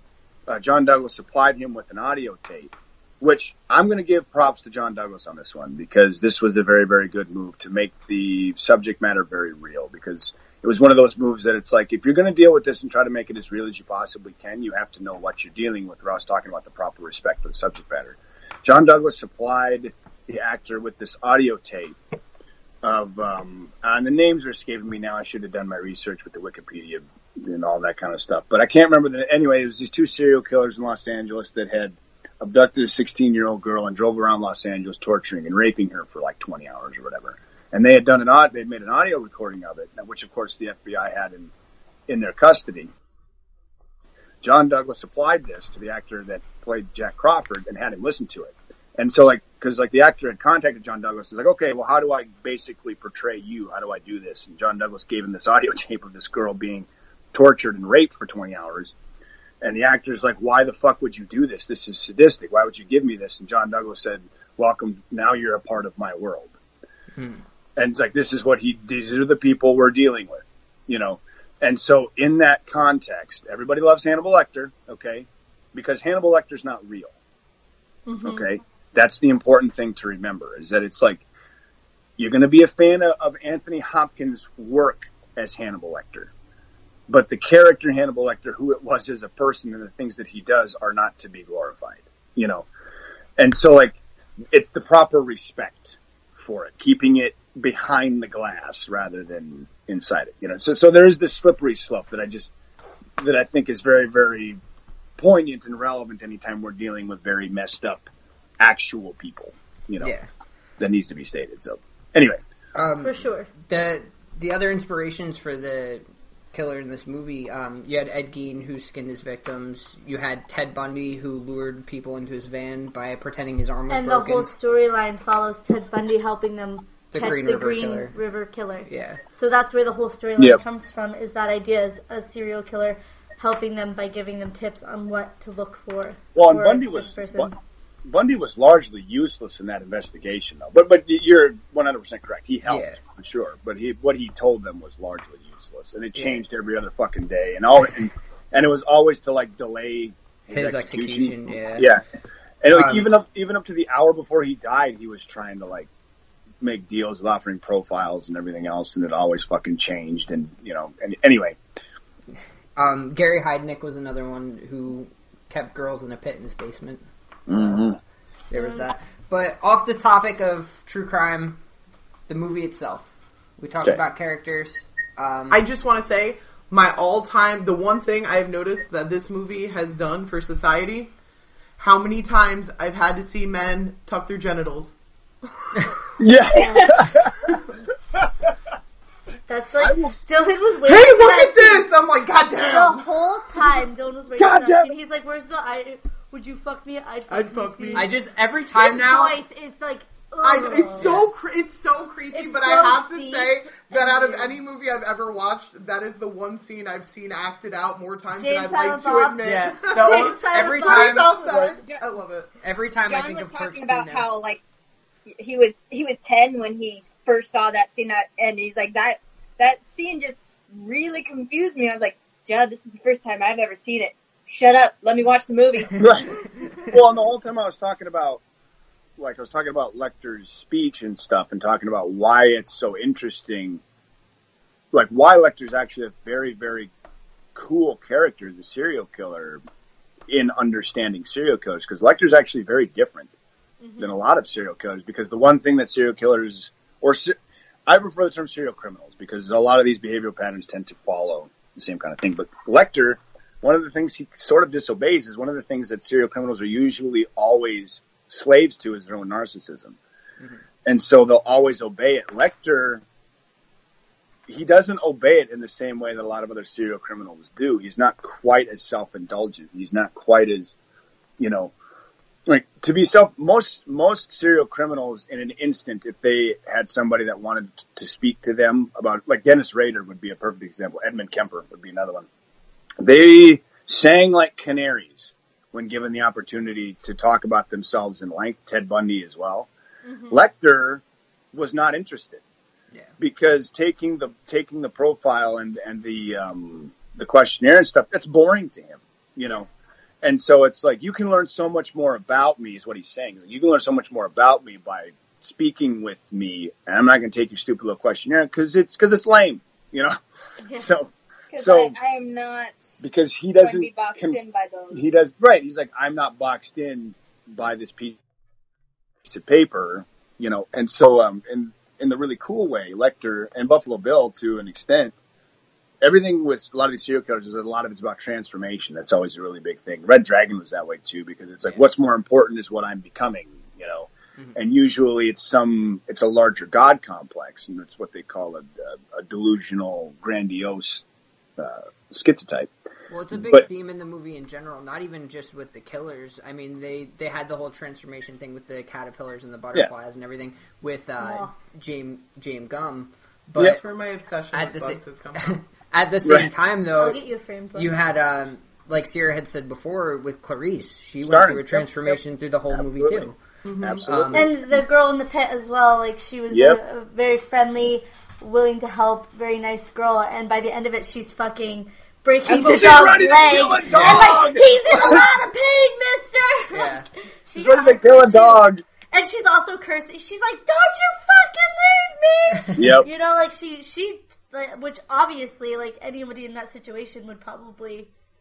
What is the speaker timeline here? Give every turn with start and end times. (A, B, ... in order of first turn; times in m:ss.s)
0:00.5-0:22.0 A
0:22.8-0:41.5 A
0:42.1-0:42.9 A
0:44.4-0:58.9 A
0:59.6-1:06.5 A
1:07.2-1:07.4 B
1:07.8-1:17.2 A
1:18.1-1:18.4 C
1:18.2-1:21.2 A
1:22.2-1:26.3 A
1:27.1-1:32.7 A
1:33.4-1:34.0 A
1:34.5-1:42.5 A
1:43.2-1:44.6 A
1:45.2-1:48.1 A
1:48.6-1:50.1 A
1:50.0-1:50.3 B
1:50.8-1:52.4 A
1:52.7-2:04.5 B
1:53.0-1:53.5 C
2:03.9-2:17.5 C
2:07.1-2:08.1 B
2:08.9-2:09.2 B
2:16.3-2:17.5 A
2:18.0-2:32.0 A
2:22.6-2:23.0 B
2:30.5-2:31.9 B
2:32.6-2:35.9 A
2:32.7-2:33.1 B
2:36.6-2:41.6 A
2:42.8-2:47.8 B
2:47.5-2:48.0 A
2:48.5-2:51.6 B
2:48.5-2:49.0 C
2:52.3-2:53.1 B
2:53.6-2:55.6 B
2:55.5-3:01.1 D
3:01.8-3:05.0 D
3:06.2-3:07.5 A
3:06.5-3:06.9 C
3:08.1-3:08.5 A
3:09.5-3:11.8 C
3:09.8-3:10.2 A
3:10.8-3:13.8 D
3:12.6-3:18.1 C
3:14.4-3:14.9 A
3:17.3-3:18.1 D
3:17.9-3:19.4 B
3:18.8-3:21.1 C
3:20.4-3:32.5 D
3:21.0-3:21.3 B
3:22.3-3:24.6 C
3:28.4-3:31.8 C
3:29.4-3:31.3 B
3:32.6-3:34.3 B
3:33.0-3:34.6 E
3:35.3-3:46.0 E
3:46.0-3:48.4 A
3:49.2-3:53.8 A
3:54.9-3:56.9 A
3:57.5-3:59.6 A
4:00.3-4:03.3 A
4:03.8-4:04.2 C
4:04.0-4:07.4 A
4:07.9-4:20.0 A
4:20.8-4:23.0 A
4:24.5-4:30.7 A
4:31.4-4:31.7 A
4:32.5-4:42.3 A
4:43.0-4:49.7 A
4:50.0-4:50.4 C
4:50.3-4:52.4 A
4:53.2-4:59.7 A
5:00.2-5:10.2 A
5:10.6-5:10.9 C
5:10.8-5:11.9 A
5:11.5-5:12.8 E
5:13.0-5:18.2 A
5:13.6-5:15.1 E
5:19.2-5:25.1 A
5:26.0-5:41.0 A
5:41.6-5:42.7 A
5:43.1-5:53.8 B
5:43.3-5:43.6 A
5:51.2-5:51.5 C
5:53.6-5:55.6 D
5:54.5-5:57.2 B
5:56.2-5:56.5 A
5:57.0-5:58.0 C
5:57.7-6:03.4 B
6:01.2-6:04.8 A
6:03.6-6:04.0 D
6:04.0-6:04.5 B
6:04.3-6:28.1 C
6:06.5-6:06.8 A
6:12.5-6:15.3 A
6:13.8-6:14.3 B
6:16.7-6:17.0 B
6:17.6-6:18.8 A
6:22.8-6:23.1 A